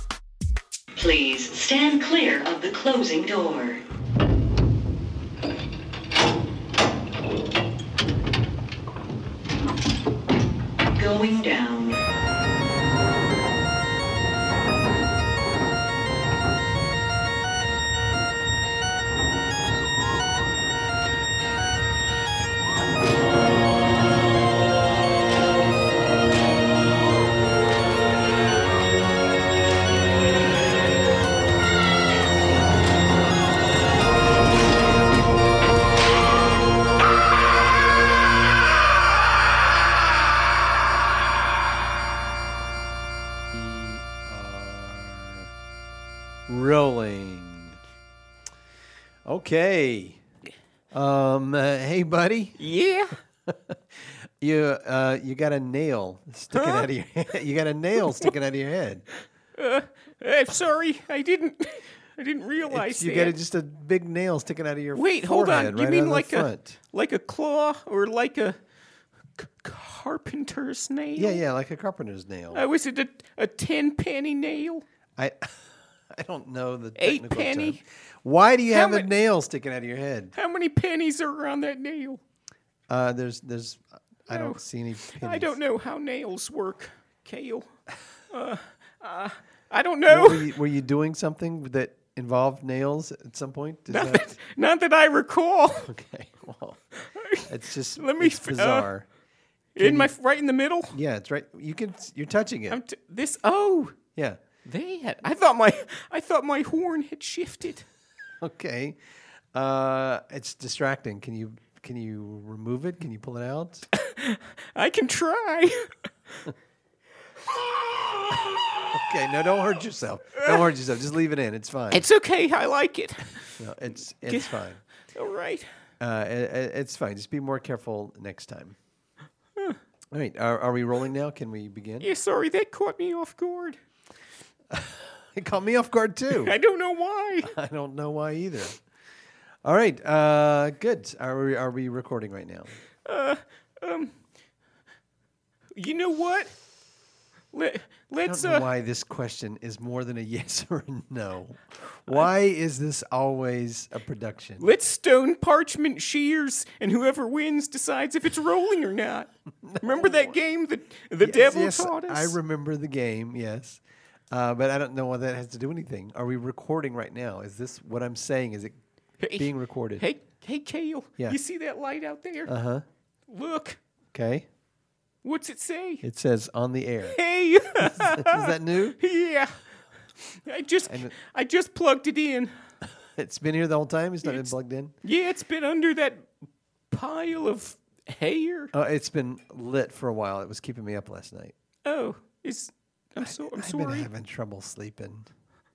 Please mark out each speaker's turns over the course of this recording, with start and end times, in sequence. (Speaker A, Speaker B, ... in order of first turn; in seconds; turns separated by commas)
Speaker A: 1.0-3.8, Speaker A: 10.9-12.0, Speaker B: 43.5-45.5, Speaker B: 46.5-47.8, Speaker B: 49.3-50.2, Speaker B: 50.9-52.6, Speaker C: 52.6-53.2, Speaker B: 53.5-59.0, Speaker C: 56.5-56.8, Speaker C: 58.1-58.3, Speaker C: 59.6-63.4, Speaker B: 62.7-66.8, Speaker C: 65.0-68.6, Speaker C: 69.4-71.4, Speaker B: 71.2-72.7, Speaker C: 72.5-74.8, Speaker B: 75.2-80.3, Speaker C: 77.0-77.8, Speaker C: 78.7-79.1, Speaker C: 80.3-82.2, Speaker B: 82.9-85.6, Speaker C: 84.3-87.7, Speaker C: 88.3-90.5, Speaker B: 90.1-94.3, Speaker C: 93.9-95.9, Speaker B: 95.9-96.8, Speaker C: 97.0-98.9, Speaker B: 97.5-99.1, Speaker C: 99.8-101.0, Speaker B: 99.8-100.1, Speaker B: 100.9-102.8, Speaker C: 102.7-104.0, Speaker B: 104.2-104.4, Speaker C: 104.7-107.9, Speaker B: 108.4-109.0, Speaker B: 109.5-113.9, Speaker C: 113.9-115.9, Speaker C: 117.7-119.0, Speaker B: 118.9-122.1, Speaker C: 121.9-123.6, Speaker B: 123.6-124.8, Speaker C: 124.3-124.6, Speaker C: 125.1-125.7, Speaker B: 126.0-128.8, Speaker B: 130.1-132.1, Speaker C: 132.0-133.8, Speaker B: 134.7-136.6, Speaker C: 136.3-137.6, Speaker B: 137.4-138.8, Speaker B: 139.6-142.8, Speaker C: 143.1-144.1, Speaker C: 145.8-146.5, Speaker C: 147.5-148.7, Speaker B: 148.2-154.7, Speaker C: 154.6-162.4, Speaker B: 159.6-160.4, Speaker B: 161.2-168.8, Speaker C: 169.2-172.5, Speaker B: 169.4-170.1, Speaker B: 172.5-172.8, Speaker C: 173.3-173.8, Speaker B: 174.1-174.5, Speaker C: 175.2-176.0, Speaker B: 176.0-177.2, Speaker C: 177.1-179.6, Speaker B: 177.8-179.0, Speaker C: 180.2-182.5, Speaker B: 180.9-181.2, Speaker B: 182.8-184.9, Speaker C: 184.2-184.5, Speaker C: 185.0-186.3, Speaker C: 186.9-188.7, Speaker B: 188.7-191.5, Speaker C: 191.8-194.1, Speaker B: 193.2-195.3